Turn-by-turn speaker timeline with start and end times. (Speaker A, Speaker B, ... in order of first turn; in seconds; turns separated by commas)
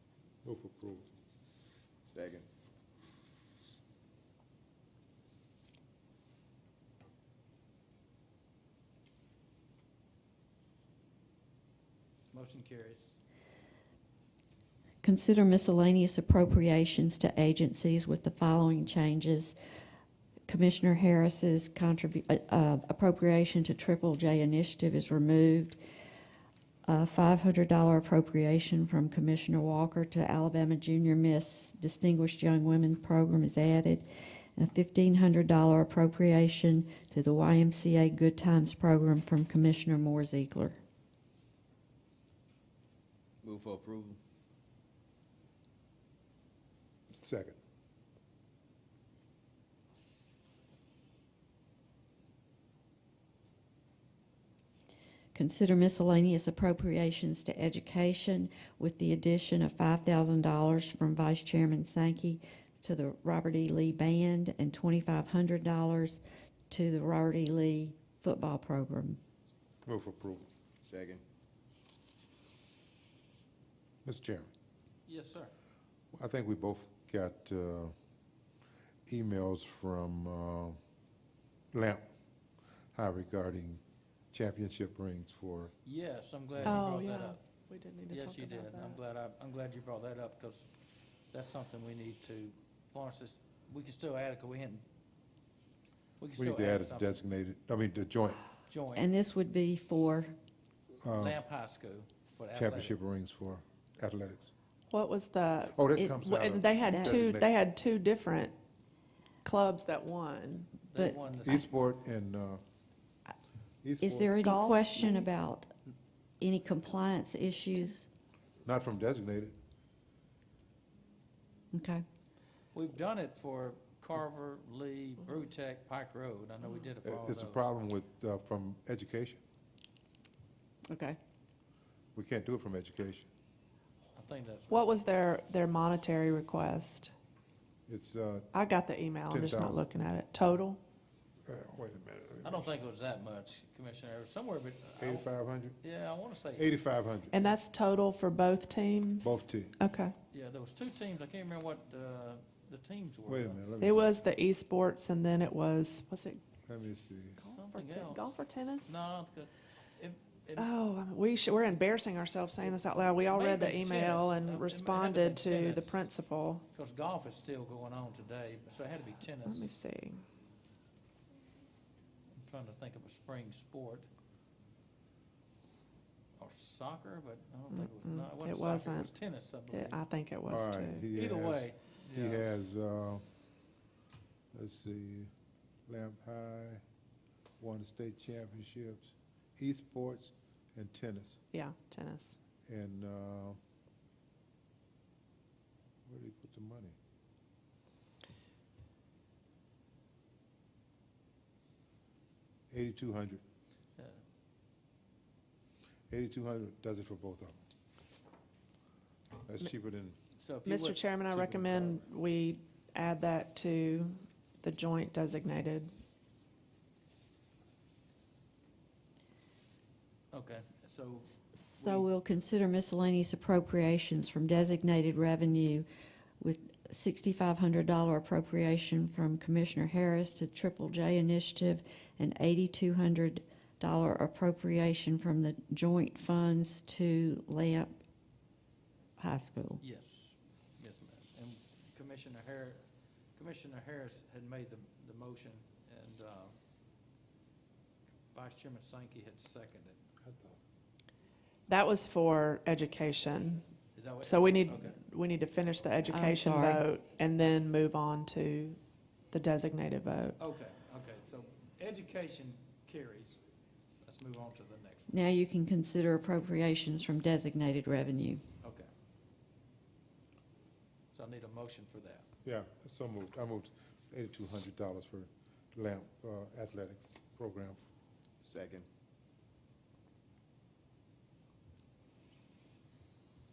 Speaker A: 0.4-1.1, Speaker B: 2.1-2.5, Speaker C: 12.3-13.1, Speaker D: 15.0-19.5, Speaker D: 20.5-25.8, Speaker D: 26.9-40.8, Speaker B: 43.4-44.2, Speaker A: 47.1-47.5, Speaker D: 55.3-69.2, Speaker A: 69.8-70.5, Speaker B: 70.8-71.2, Speaker A: 74.0-74.5, Speaker C: 75.1-75.5, Speaker A: 76.1-77.9, Speaker A: 79.1-80.8, Speaker A: 81.7-82.1, Speaker A: 82.9-83.8, Speaker A: 84.3-85.7, Speaker C: 85.8-87.4, Speaker E: 86.6-89.0, Speaker C: 88.1-90.7, Speaker C: 91.3-94.8, Speaker C: 96.2-97.1, Speaker A: 96.4-98.4, Speaker C: 98.7-99.1, Speaker D: 98.9-100.3, Speaker A: 101.0-101.4, Speaker C: 101.1-103.0, Speaker A: 102.5-104.5, Speaker E: 104.9-108.5, Speaker A: 105.7-107.5, Speaker D: 106.8-107.2, Speaker E: 109.4-110.7, Speaker C: 110.8-111.7, Speaker A: 111.4-112.6, Speaker A: 113.8-114.4, Speaker D: 114.0-115.7, Speaker E: 114.4-115.3, Speaker D: 116.4-118.0, Speaker A: 118.6-119.5, Speaker D: 121.7-122.0, Speaker C: 122.7-127.6, Speaker A: 127.0-129.4, Speaker D: 130.9-131.2, Speaker A: 132.1-133.3, Speaker C: 134.1-134.9, Speaker E: 134.7-137.1, Speaker A: 137.9-138.5, Speaker E: 138.5-140.8, Speaker A: 139.3-139.8, Speaker A: 141.5-142.7, Speaker C: 142.4-145.3, Speaker A: 145.0-145.8, Speaker C: 145.8-146.8, Speaker A: 146.5-147.5, Speaker E: 147.3-150.1, Speaker A: 149.2-149.8, Speaker C: 150.3-153.6, Speaker A: 153.2-154.2, Speaker E: 153.8-156.4, Speaker A: 156.7-157.4, Speaker E: 157.4-159.1, Speaker C: 157.6-158.3, Speaker C: 158.8-160.7, Speaker E: 160.6-166.6, Speaker C: 163.1-166.1, Speaker C: 166.7-169.7, Speaker E: 169.4-170.2, Speaker C: 172.3-174.1, Speaker C: 176.4-180.0, Speaker E: 177.7-179.1, Speaker E: 179.7-181.0, Speaker A: 180.5-183.2, Speaker C: 181.1-182.5, Speaker A: 184.5-185.3, Speaker A: 185.9-186.8, Speaker A: 187.6-191.4, Speaker E: 191.5-192.4, Speaker A: 192.7-193.6, Speaker A: 196.0-196.9, Speaker A: 202.7-203.4, Speaker A: 206.1-207.6, Speaker A: 209.4-210.2, Speaker C: 210.4-212.0, Speaker E: 210.6-215.9, Speaker C: 220.3-222.1, Speaker D: 221.4-225.8, Speaker D: 226.4-237.9, Speaker D: 239.2-239.8, Speaker C: 239.8-246.6, Speaker C: 248.3-250.0, Speaker A: 250.2-250.6, Speaker E: 251.7-253.6, Speaker C: 253.9-255.0, Speaker E: 254.2-258.8, Speaker D: 256.1-256.9, Speaker E: 259.3-260.4, Speaker C: 260.4-263.4, Speaker C: 264.0-265.1, Speaker D: 265.1-268.4, Speaker C: 268.6-268.9, Speaker C: 271.1-272.3, Speaker A: 272.4-277.8, Speaker B: 278.4-278.9